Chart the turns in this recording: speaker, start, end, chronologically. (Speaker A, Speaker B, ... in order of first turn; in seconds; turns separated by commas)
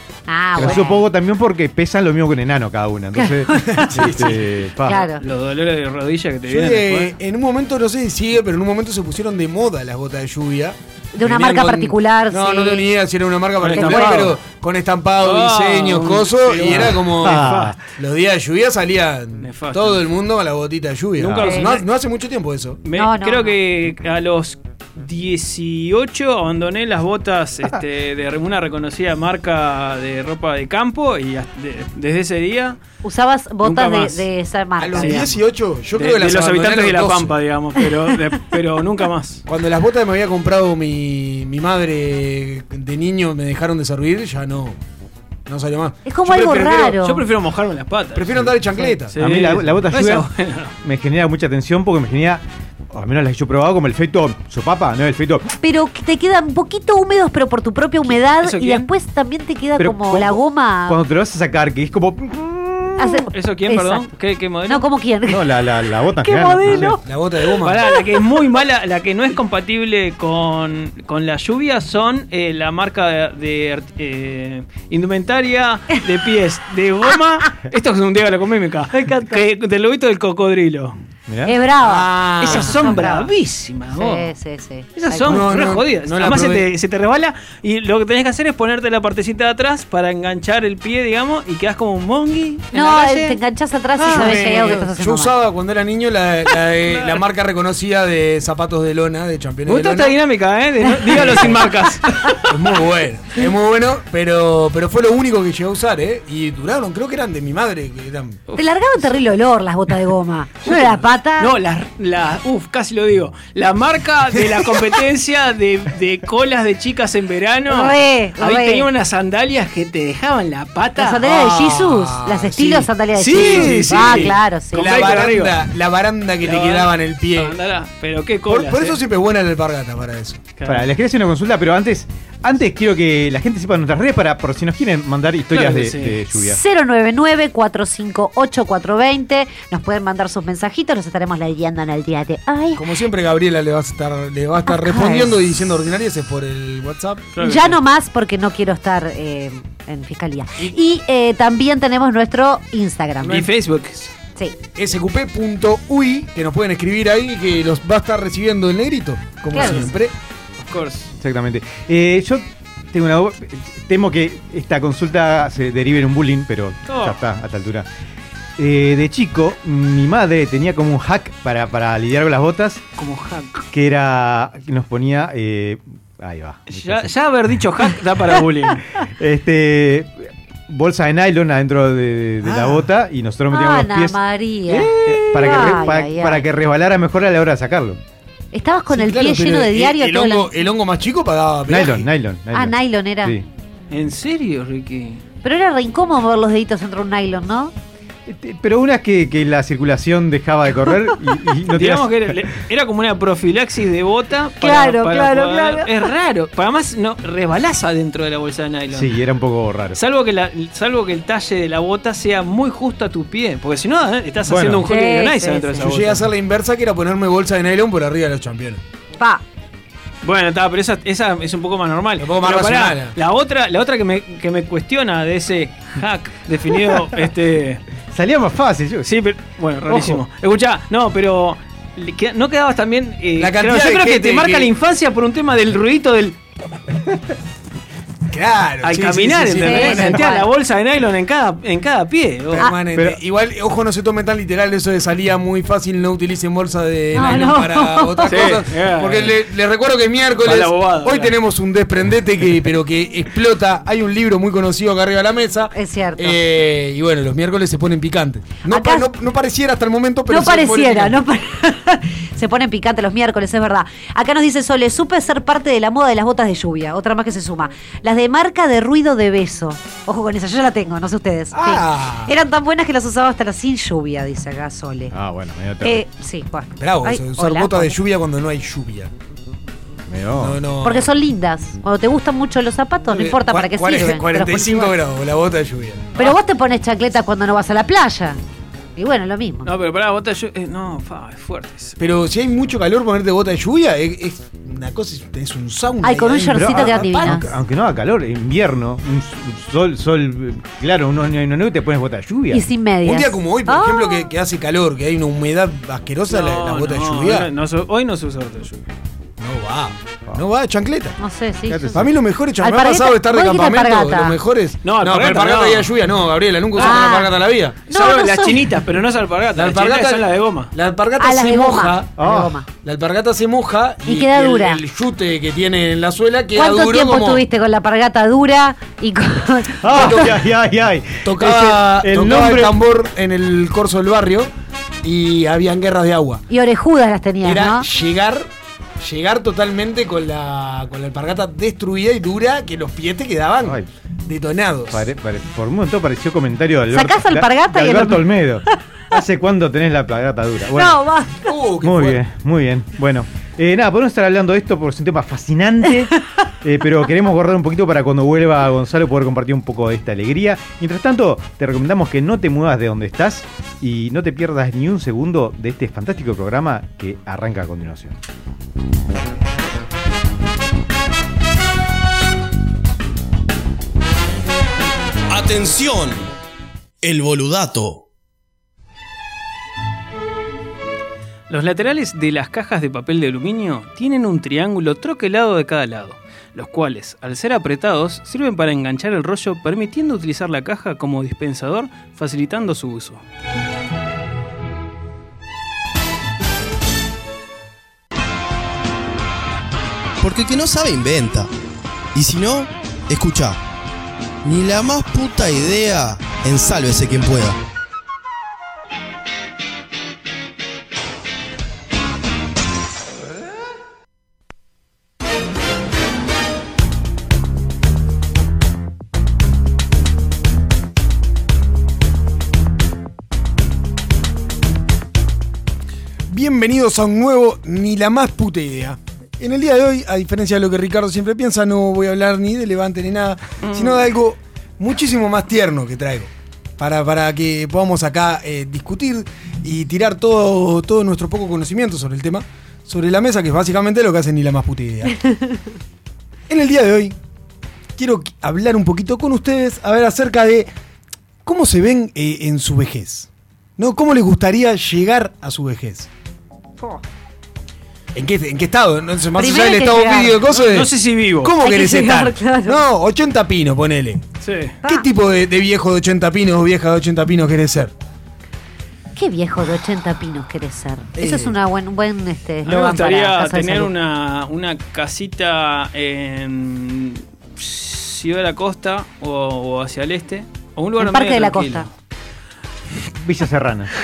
Speaker A: 0.3-1.1, Speaker B: 0.6-5.1, Speaker A: 3.1-3.8, Speaker C: 3.6-4.4, Speaker A: 4.9-5.2, Speaker D: 5.2-7.1, Speaker C: 6.4-22.8, Speaker A: 11.1-12.9, Speaker D: 13.6-14.4, Speaker A: 13.7-14.3, Speaker D: 15.2-17.8, Speaker B: 16.9-17.8, Speaker D: 19.4-20.0, Speaker B: 21.2-21.5, Speaker D: 21.3-21.8, Speaker A: 21.4-21.7, Speaker D: 22.8-32.8, Speaker A: 22.9-23.5, Speaker A: 33.0-35.3, Speaker D: 33.6-34.2, Speaker C: 34.8-37.3, Speaker D: 35.0-35.2, Speaker D: 35.9-39.4, Speaker C: 39.5-44.8, Speaker C: 45.5-47.0, Speaker A: 46.1-47.2, Speaker D: 47.0-48.5, Speaker C: 48.1-49.2, Speaker D: 49.1-50.7, Speaker B: 49.1-50.3, Speaker B: 50.8-55.5, Speaker A: 55.6-61.0, Speaker D: 58.4-58.9, Speaker B: 59.8-63.3, Speaker A: 63.0-64.1, Speaker D: 63.3-64.9, Speaker A: 64.7-65.4, Speaker B: 65.3-67.0, Speaker A: 66.2-67.0, Speaker C: 66.8-67.9, Speaker D: 67.6-80.9, Speaker B: 81.3-81.6, Speaker A: 81.5-83.2, Speaker C: 81.8-83.2, Speaker D: 82.4-84.3, Speaker A: 83.9-85.5, Speaker D: 84.9-93.4, Speaker C: 85.2-86.6, Speaker A: 92.7-95.3, Speaker D: 94.0-94.5, Speaker C: 94.0-100.2, Speaker D: 96.8-97.2, Speaker D: 99.7-102.3, Speaker C: 101.0-101.8, Speaker C: 102.5-108.4, Speaker A: 108.6-111.5, Speaker D: 110.7-121.3, Speaker A: 117.7-118.9, Speaker A: 121.0-124.9, Speaker C: 121.2-127.6, Speaker D: 123.2-125.6, Speaker D: 126.4-129.0, Speaker C: 128.5-130.5, Speaker D: 130.6-130.9, Speaker B: 130.7-136.6, Speaker D: 135.5-136.2, Speaker A: 136.3-142.8, Speaker C: 142.8-147.3, Speaker A: 144.7-145.3, Speaker D: 147.3-147.8, Speaker A: 147.4-153.5, Speaker D: 153.2-154.1, Speaker C: 154.8-160.1, Speaker A: 159.5-159.9, Speaker D: 159.6-159.8, Speaker D: 160.6-161.1, Speaker B: 161.2-167.9, Speaker D: 166.9-167.2, Speaker B: 168.6-172.9, Speaker D: 173.0-173.6, Speaker B: 173.7-177.1, Speaker D: 176.7-178.8, Speaker B: 179.2-188.0, Speaker C: 182.5-182.7, Speaker A: 183.5-186.5, Speaker A: 188.5-190.5, Speaker C: 188.9-192.1, Speaker B: 191.7-193.4, Speaker A: 192.5-193.3, Speaker D: 193.9-195.2, Speaker A: 195.4-197.7, Speaker B: 198.3-202.4, Speaker D: 201.7-209.2, Speaker A: 204.6-205.9, Speaker B: 208.9-210.0, Speaker D: 209.9-216.2, Speaker B: 214.5-214.9, Speaker A: 214.8-215.9, Speaker C: 215.8-218.8, Speaker D: 220.2-227.8, Speaker C: 222.2-223.1, Speaker B: 228.1-229.1, Speaker D: 229.0-236.4, Speaker B: 229.9-230.2, Speaker C: 233.4-234.7, Speaker C: 238.3-240.3, Speaker D: 238.8-242.6, Speaker A: 239.6-240.5, Speaker C: 242.5-261.2, Speaker A: 247.1-248.5, Speaker D: 248.3-249.3, Speaker D: 250.4-251.3, Speaker A: 255.8-256.4, Speaker A: 258.7-259.1, Speaker A: 260.3-275.1, Speaker C: 271.5-272.4, Speaker B: 275.1-276.0, Speaker A: 275.8-277.9, Speaker C: 276.8-279.1, Speaker B: 280.1-280.6, Speaker C: 280.4-281.1, Speaker A: 280.8-284.9, Speaker C: 283.1-286.2, Speaker A: 286.2-288.4, Speaker A: 289.0-289.7, Speaker D: 289.6-291.9, Speaker C: 292.0-297.5, Speaker A: 296.0-297.5, Speaker B: 296.5-302.6, Speaker A: 302.5-304.2, Speaker C: 303.0-307.5, Speaker D: 306.3-308.8, Speaker C: 309.4-311.1, Speaker A: 311.2-312.0, Speaker B: 311.7-312.1, Speaker C: 311.9-317.9, Speaker A: 312.6-314.4, Speaker D: 314.8-315.9, Speaker D: 316.8-317.0, Speaker A: 316.8-317.3, Speaker D: 317.9-320.7, Speaker A: 317.9-318.6, Speaker C: 319.5-322.1, Speaker A: 321.2-322.6, Speaker B: 322.2-322.5, Speaker C: 322.8-327.4, Speaker A: 324.1-324.8, Speaker A: 326.6-330.3, Speaker B: 329.8-332.8, Speaker C: 329.9-330.4, Speaker C: 331.2-334.5, Speaker C: 335.0-336.4, Speaker A: 336.5-337.9, Speaker C: 337.4-345.0, Speaker B: 343.6-343.9, Speaker B: 344.9-351.0, Speaker A: 346.9-348.2, Speaker A: 350.8-351.3, Speaker C: 351.5-352.2, Speaker B: 351.8-368.2, Speaker E: 375.3-376.3, Speaker E: 377.0-378.0, Speaker D: 381.5-393.2, Speaker E: 400.2-401.5, Speaker E: 402.1-403.6, Speaker E: 404.4-407.6, Speaker C: 426.3-445.1, Speaker D: 433.7-434.0, Speaker C: 446.5-447.1, Speaker C: 448.0-450.7, Speaker C: 451.4-456.1, Speaker C: 458.1-464.3, Speaker A: 459.4-460.4, Speaker D: 460.5-461.5, Speaker A: 461.6-462.8, Speaker D: 464.4-464.8, Speaker C: 464.8-467.9, Speaker A: 469.1-473.9, Speaker C: 471.1-471.6, Speaker D: 472.6-481.9, Speaker A: 481.0-481.9, Speaker B: 483.1-483.9